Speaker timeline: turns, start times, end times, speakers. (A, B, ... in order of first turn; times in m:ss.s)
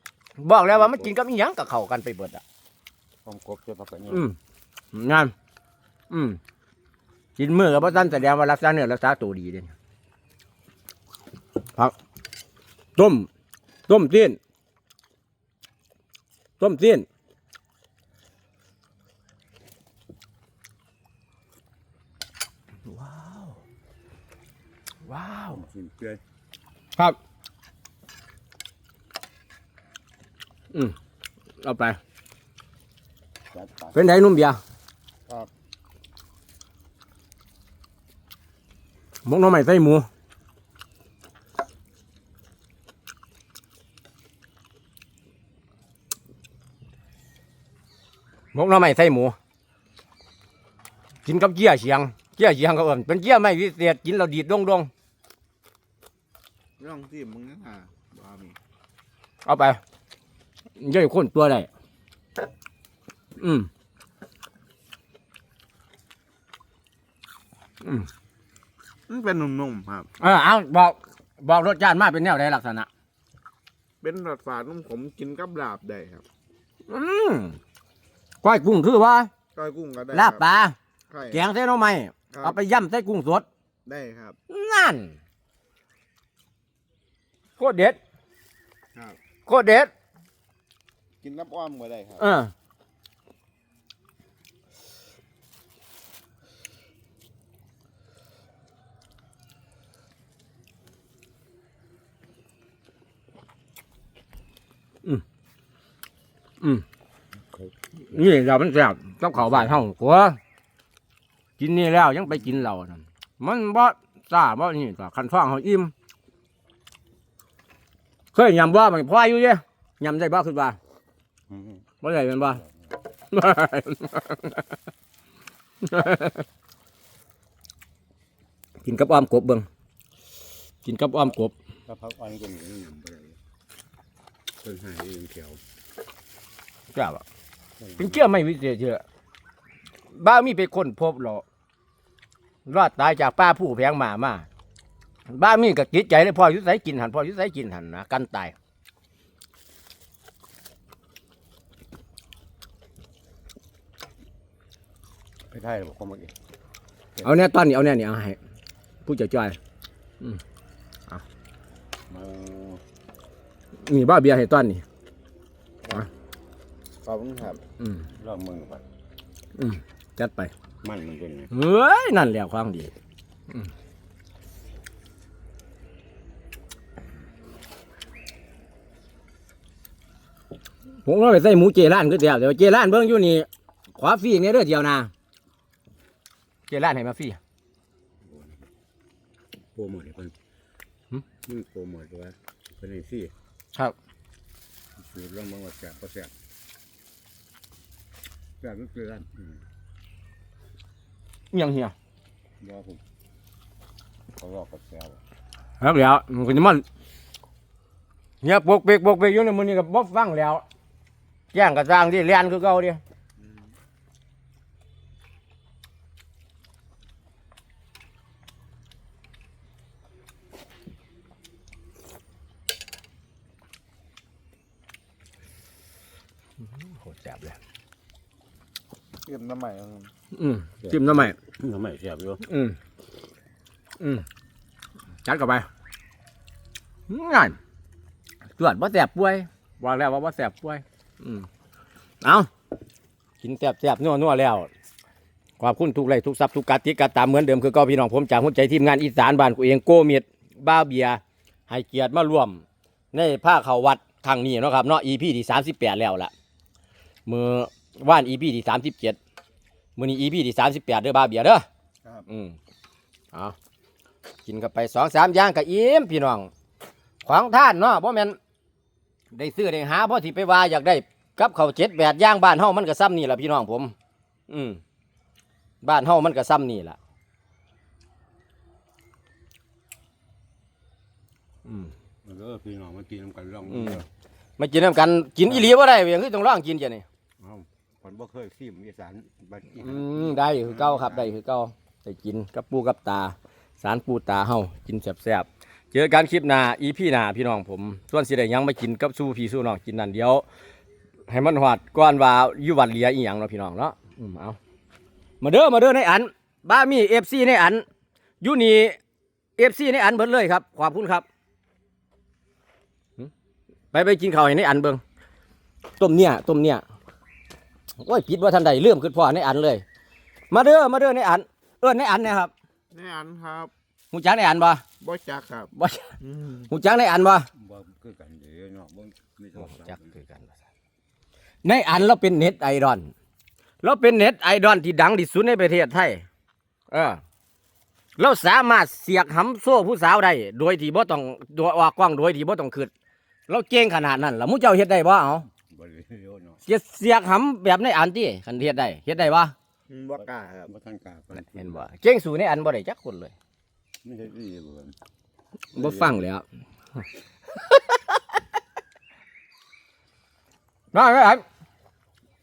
0:00.4-0:02.4 A
0:00.7-0:01.1 B
0:03.2-0:04.3 B
0:04.1-0:04.4 A
0:04.9-0:05.3 A
0:06.1-0:06.4 A
0:07.4-0:09.7 A
0:13.0-0:13.3 A
0:13.9-0:14.4 A
0:16.6-0:17.0 A
0:22.8-0:23.6 A
0:25.0-0:25.6 A
0:25.5-0:26.2 B
0:31.6-0:32.0 A
0:33.5-0:34.1 B
0:33.9-0:34.6 A
0:39.2-0:40.1 A
0:48.5-0:49.4 A
0:51.2-0:54.9 A
0:56.8-0:58.6 C
0:59.4-0:59.8 A
1:00.8-1:01.7 A
1:03.4-1:03.7 A
1:07.8-1:08.1 A
1:09.1-1:10.1 C
1:10.2-1:12.9 A
1:14.0-1:16.2 C
1:16.9-1:17.6 A
1:18.4-1:19.3 A
1:19.5-1:20.4 C
1:20.1-1:20.8 A
1:21.1-1:21.4 C
1:21.3-1:23.4 A
1:22.3-1:22.6 C
1:23.8-1:24.4 C
1:24.5-1:25.2 A
1:27.6-1:28.0 A
1:29.4-1:29.9 A
1:31.2-1:32.2 C
1:32.2-1:32.5 A
1:47.5-1:48.3 B
1:48.0-1:50.4 A
1:49.4-1:49.8 B
1:51.6-1:55.9 A
1:58.3-2:00.8 A
2:01.5-2:01.8 B
2:02.0-2:02.6 A
2:03.3-2:04.7 A
2:05.8-2:06.4 A
2:08.8-2:09.6 A
2:10.8-2:11.5 A
2:11.9-2:13.4 B
2:14.6-2:15.6 B
2:16.9-2:17.2 A
2:17.8-2:18.2 B
2:18.0-2:19.0 A
2:20.1-2:21.4 A
2:22.6-2:24.4 A
2:25.3-2:28.5 A
2:35.5-2:36.3 B
2:37.2-2:38.4 A
2:39.0-2:39.6 A
2:42.1-2:42.8 B
2:43.8-2:44.8 A
2:47.0-2:47.6 C
2:47.8-2:48.1 A
2:48.1-2:48.8 B
2:49.6-2:50.5 A
2:50.8-2:51.5 B
2:51.5-2:52.9 A
3:01.0-3:05.1 A
3:06.7-3:07.4 A
3:08.2-3:08.6 B
3:09.7-3:10.3 B
3:11.4-3:13.3 B
3:15.0-3:16.3 B
3:18.6-3:19.6 B
3:21.5-3:21.9 A
3:22.6-3:23.0 B
3:24.4-3:25.2 B
3:25.8-3:26.8 A
3:28.4-3:30.6 A
3:31.5-3:33.0 A
3:46.8-3:47.6 A
3:49.2-3:50.1 C
3:50.3-3:51.4 A
3:50.8-3:52.4 B
3:52.4-3:52.8 A
3:54.0-3:54.2 A
3:55.2-3:55.7 A
3:57.1-3:57.6 A
3:58.6-4:01.5 A
4:02.2-4:02.5 A
4:03.4-4:04.7 A
4:05.6-4:16.3 A
4:17.2-4:19.2 A
4:20.0-4:21.6 A
4:22.2-4:22.6 A
4:24.4-4:26.5 A
4:27.2-4:28.4 A
4:29.3-4:33.9 A
4:34.5-4:34.8 A
4:35.8-4:37.0 A
4:41.6-4:41.9 A
4:42.2-4:44.1 B
4:43.7-4:44.0 A
4:44.6-4:47.0 A
4:47.4-4:51.3 B
4:49.8-5:00.4 A
5:01.3-5:04.6 A
5:05.4-5:07.8 A
5:08.4-5:09.0 A
5:09.6-5:11.2 A
5:13.9-5:15.0 A
5:16.0-5:16.8 A
5:18.0-5:19.8 A
5:20.5-5:22.5 A
5:22.9-5:23.7 C
5:24.1-5:24.8 A
5:25.0-5:26.7 C
5:25.7-5:27.5 A
5:27.5-5:30.2 B
5:29.6-5:30.5 A
5:31.6-5:33.1 A
5:33.8-5:36.2 A
5:36.9-5:37.2 A
5:38.2-5:42.9 A
5:43.5-5:45.4 A
5:45.6-5:46.6 B
5:46.6-5:49.5 A
5:49.9-5:50.7 C
5:50.6-5:51.8 B
5:51.5-5:53.3 A
5:54.0-5:55.0 B
5:55.7-5:56.4 A
5:55.7-5:56.2 B
5:57.6-5:58.2 A
6:00.9-6:01.4 A